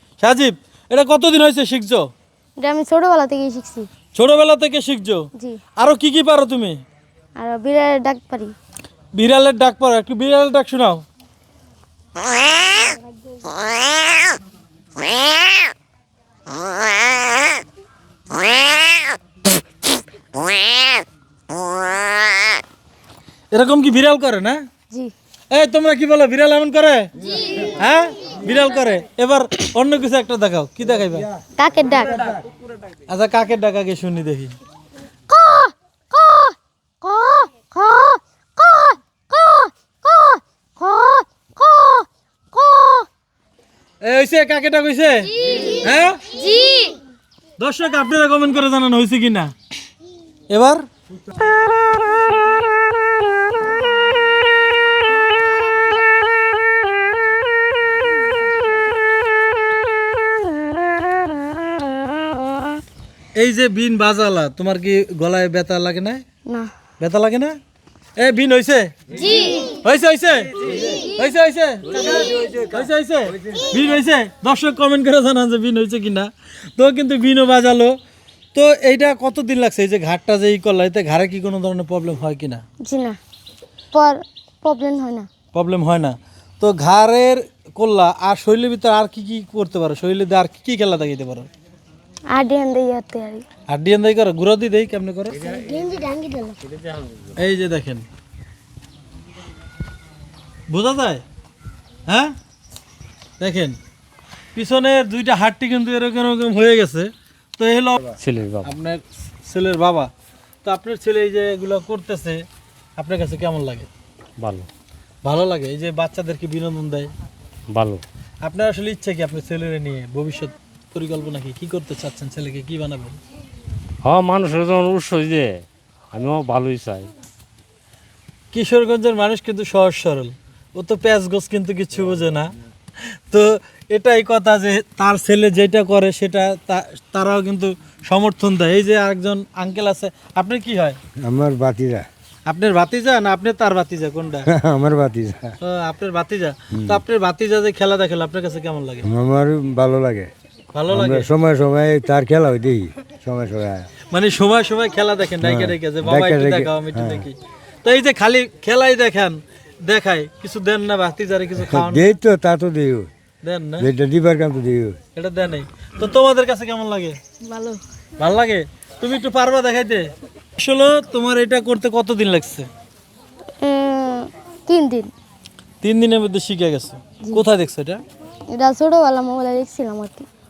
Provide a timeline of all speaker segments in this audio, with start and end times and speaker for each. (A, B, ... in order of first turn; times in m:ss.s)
0:00.2-0:02.1 A
0:02.6-0:03.9 B
0:04.1-0:06.8 A
0:07.4-0:08.5 B
0:09.1-0:11.0 A
0:23.5-0:24.6 A
0:25.5-0:31.3 A
0:31.6-0:32.3 B
0:33.1-0:34.5 A
0:35.3-0:43.1 B
0:44.0-0:46.2 A
0:45.5-0:45.8 B
0:46.3-0:47.0 B
0:47.6-0:49.5 A
0:50.5-0:50.8 A
1:03.3-1:06.2 A
1:07.0-1:07.6 A
1:08.2-1:09.0 A
1:09.2-1:09.6 B
1:09.6-1:18.0 A
1:18.5-1:22.6 A
1:22.8-1:23.2 B
1:23.9-1:25.3 B
1:25.5-1:31.5 A
1:32.3-1:33.4 B
1:33.7-1:35.4 A
1:35.5-1:36.6 B
1:37.3-1:38.0 A
1:40.7-1:41.2 A
1:42.1-1:42.3 A
1:43.4-1:43.8 A
1:44.5-1:50.1 A
1:48.2-1:48.7 C
1:50.6-1:52.4 A
1:53.0-1:53.9 A
1:54.4-1:54.7 C
1:55.2-1:57.1 A
1:57.7-1:58.0 C
1:58.4-2:03.2 A
2:04.0-2:07.1 C
2:08.5-2:12.5 A
2:13.3-2:21.0 A
2:21.2-2:22.0 D
2:22.5-2:24.5 A
2:24.5-2:25.5 D
2:25.6-2:29.1 A
2:26.7-2:27.0 D
2:29.0-2:30.3 D
2:30.7-2:31.3 A
2:30.9-2:33.9 D
2:34.1-2:42.1 A
2:35.4-2:37.2 D
2:41.6-2:43.1 D
2:43.4-2:43.9 A
2:43.8-2:45.0 D
2:45.1-2:47.2 A
2:47.5-2:47.8 B
2:48.2-2:52.7 A
2:53.6-2:55.1 B
2:55.8-2:58.0 A
2:58.5-3:00.2 B